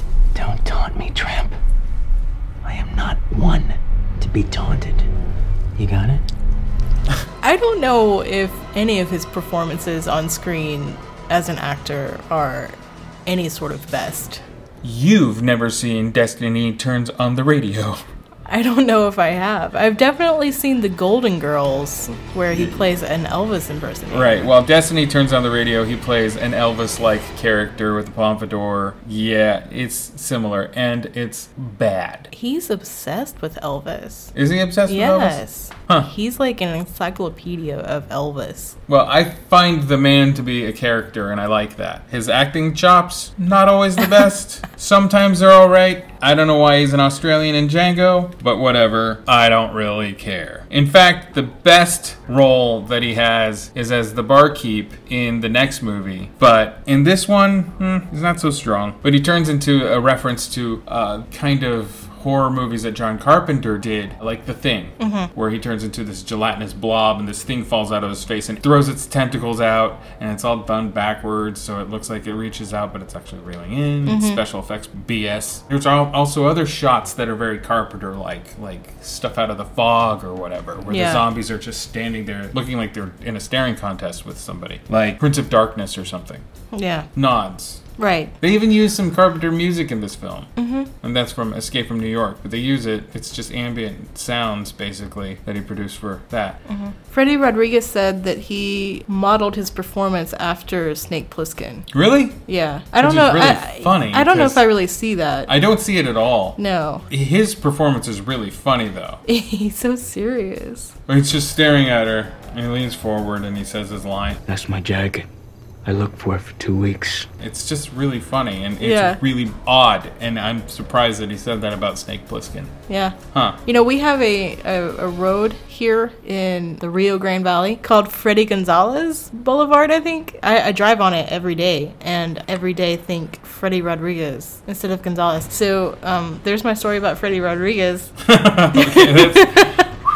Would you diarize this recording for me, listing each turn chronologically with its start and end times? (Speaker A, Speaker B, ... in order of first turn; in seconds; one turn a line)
Speaker A: 0.3-1.6
Speaker A: 2.6-5.1
Speaker A: 5.8-6.2
Speaker B: 7.4-14.4
Speaker C: 14.8-18.0
Speaker B: 18.5-24.5
Speaker C: 22.5-22.8
Speaker C: 24.1-32.3
Speaker B: 32.3-34.3
Speaker C: 34.4-36.1
Speaker B: 34.9-38.8
Speaker C: 38.9-86.4
Speaker B: 65.0-65.3
Speaker B: 74.1-74.4
Speaker B: 80.9-81.2
Speaker B: 86.7-87.1
Speaker C: 87.2-87.8
Speaker B: 88.0-88.3
Speaker C: 88.4-90.5
Speaker B: 90.6-90.9
Speaker C: 91.0-96.6
Speaker B: 96.7-101.9
Speaker C: 101.9-102.4
Speaker B: 102.5-105.5
Speaker C: 103.0-104.7
Speaker C: 105.5-109.2
Speaker B: 106.6-107.0
Speaker B: 109.3-111.0
Speaker C: 111.1-114.4
Speaker A: 114.5-115.3
Speaker A: 115.8-117.3
Speaker C: 117.4-122.7
Speaker B: 118.8-119.2
Speaker B: 122.9-138.2
Speaker C: 123.3-123.6
Speaker C: 138.2-139.8
Speaker B: 138.7-139.9